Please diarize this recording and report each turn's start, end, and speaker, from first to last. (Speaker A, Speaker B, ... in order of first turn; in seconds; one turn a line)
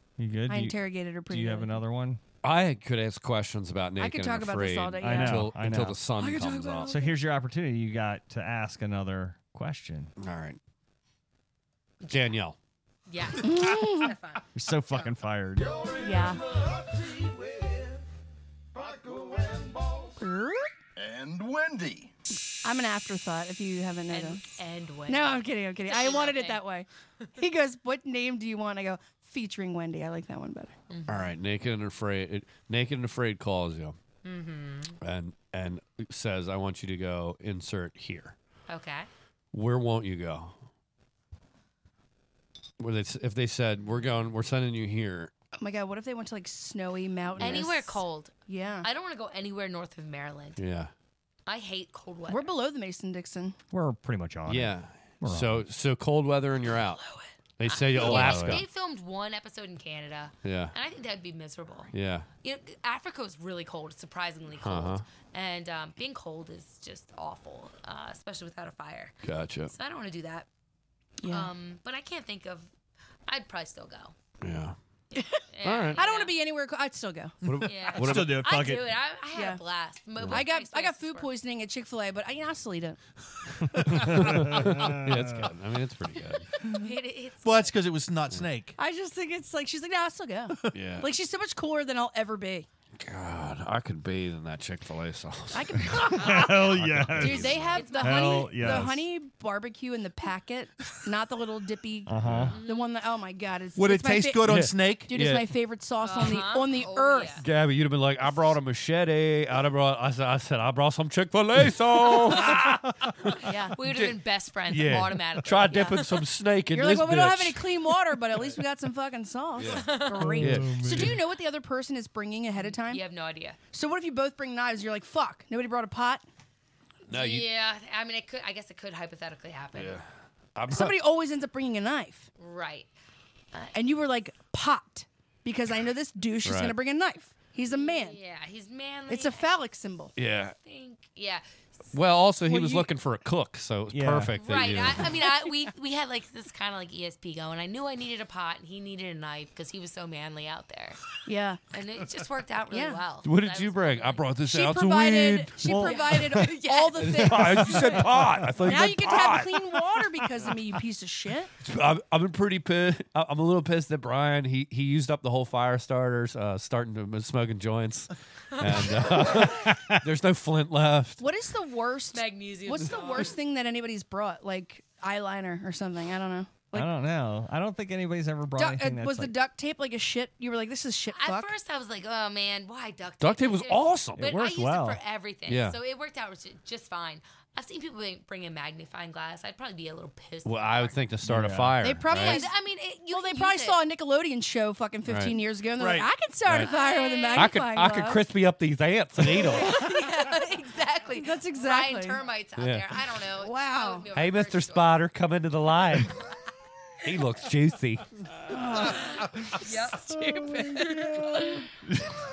Speaker A: 0.2-0.8
Speaker B: 0.5-1.8
Speaker A: 1.3-2.2
Speaker C: 2.4-6.9
Speaker B: 4.0-5.5
Speaker A: 5.0-6.0
Speaker B: 6.2-7.1
Speaker A: 6.9-10.1
Speaker C: 10.2-10.6
Speaker D: 12.0-12.3
Speaker C: 12.1-12.6
Speaker D: 13.1-14.9
Speaker B: 13.4-14.1
Speaker A: 14.5-15.7
Speaker E: 15.6-18.0
Speaker B: 16.0-16.4
Speaker E: 18.7-20.2
Speaker B: 20.2-20.7
Speaker E: 21.0-22.1
Speaker B: 22.6-24.5
Speaker D: 24.1-26.6
Speaker B: 25.1-30.7
Speaker D: 30.9-31.3
Speaker C: 31.1-34.0
Speaker D: 34.2-35.0
Speaker C: 35.0-38.4
Speaker D: 38.7-39.1
Speaker C: 39.5-40.5
Speaker C: 42.8-45.3
Speaker B: 45.6-48.9
Speaker C: 47.3-47.7
Speaker D: 47.4-50.6
Speaker C: 50.6-50.9
Speaker D: 51.5-52.5
Speaker B: 52.3-53.5
Speaker A: 53.7-55.7
Speaker C: 54.5-57.0
Speaker C: 57.6-58.6
Speaker D: 57.6-61.9
Speaker A: 58.0-58.6
Speaker C: 60.4-60.7
Speaker C: 61.9-62.3
Speaker D: 62.4-69.2
Speaker C: 64.5-65.0
Speaker C: 69.2-69.7
Speaker D: 69.7-70.5
Speaker B: 71.2-71.5
Speaker D: 71.3-72.7
Speaker D: 73.3-74.1
Speaker C: 74.4-74.8
Speaker D: 75.1-76.3
Speaker C: 75.6-76.0
Speaker B: 75.9-77.3
Speaker C: 77.4-78.4
Speaker D: 77.6-81.3
Speaker A: 77.9-78.9
Speaker B: 79.3-79.6
Speaker C: 80.2-80.4
Speaker B: 80.2-83.0
Speaker A: 83.7-85.4
Speaker C: 83.8-86.5
Speaker D: 86.6-87.7
Speaker F: 87.4-88.7
Speaker B: 88.8-92.7
Speaker C: 90.7-91.1
Speaker C: 93.0-97.9
Speaker B: 95.5-107.4
Speaker A: 96.0-99.0
Speaker D: 97.5-98.5
Speaker A: 102.1-102.6
Speaker C: 102.2-102.6
Speaker D: 102.5-102.9
Speaker F: 103.8-105.0
Speaker C: 104.4-105.5
Speaker D: 106.0-107.5
Speaker C: 107.4-117.8
Speaker B: 113.4-113.8
Speaker D: 113.7-116.2
Speaker B: 115.7-116.0
Speaker B: 116.7-123.0
Speaker C: 119.5-121.1
Speaker D: 119.6-120.3
Speaker A: 120.2-121.2
Speaker D: 122.6-123.6
Speaker B: 123.7-126.2
Speaker C: 127.1-127.5
Speaker D: 127.1-130.0
Speaker C: 129.7-131.0
Speaker B: 130.7-132.3
Speaker D: 132.4-132.9
Speaker B: 133.7-138.2
Speaker C: 136.4-136.8
Speaker D: 137.7-139.4
Speaker B: 139.1-140.1
Speaker C: 140.2-140.5
Speaker D: 140.6-141.4
Speaker C: 141.9-145.2
Speaker A: 143.9-144.3
Speaker D: 144.4-151.0
Speaker B: 151.2-151.6
Speaker D: 151.7-154.3
Speaker B: 152.7-153.0
Speaker C: 153.2-155.7
Speaker B: 154.4-158.0
Speaker A: 155.6-156.0
Speaker D: 155.7-158.0
Speaker C: 157.0-159.8
Speaker A: 158.2-158.5
Speaker B: 158.6-161.5
Speaker C: 161.6-171.2
Speaker D: 168.5-168.9
Speaker A: 169.6-170.0
Speaker B: 171.2-176.9
Speaker D: 172.1-173.3
Speaker A: 176.7-179.3
Speaker B: 178.6-181.5
Speaker D: 181.1-191.0
Speaker C: 183.2-184.3
Speaker A: 184.2-185.0
Speaker C: 185.5-185.8
Speaker C: 190.4-192.4
Speaker A: 191.2-191.8
Speaker B: 191.8-192.5
Speaker D: 192.1-193.8
Speaker B: 193.1-198.2
Speaker C: 195.1-196.7
Speaker D: 196.6-197.5
Speaker C: 197.3-199.8
Speaker D: 199.5-205.0
Speaker B: 199.6-200.0
Speaker B: 201.2-202.2
Speaker C: 202.6-202.9
Speaker B: 203.4-204.1
Speaker C: 204.1-206.2
Speaker C: 207.0-208.1
Speaker B: 208.5-209.2
Speaker D: 208.8-211.7
Speaker A: 210.2-211.6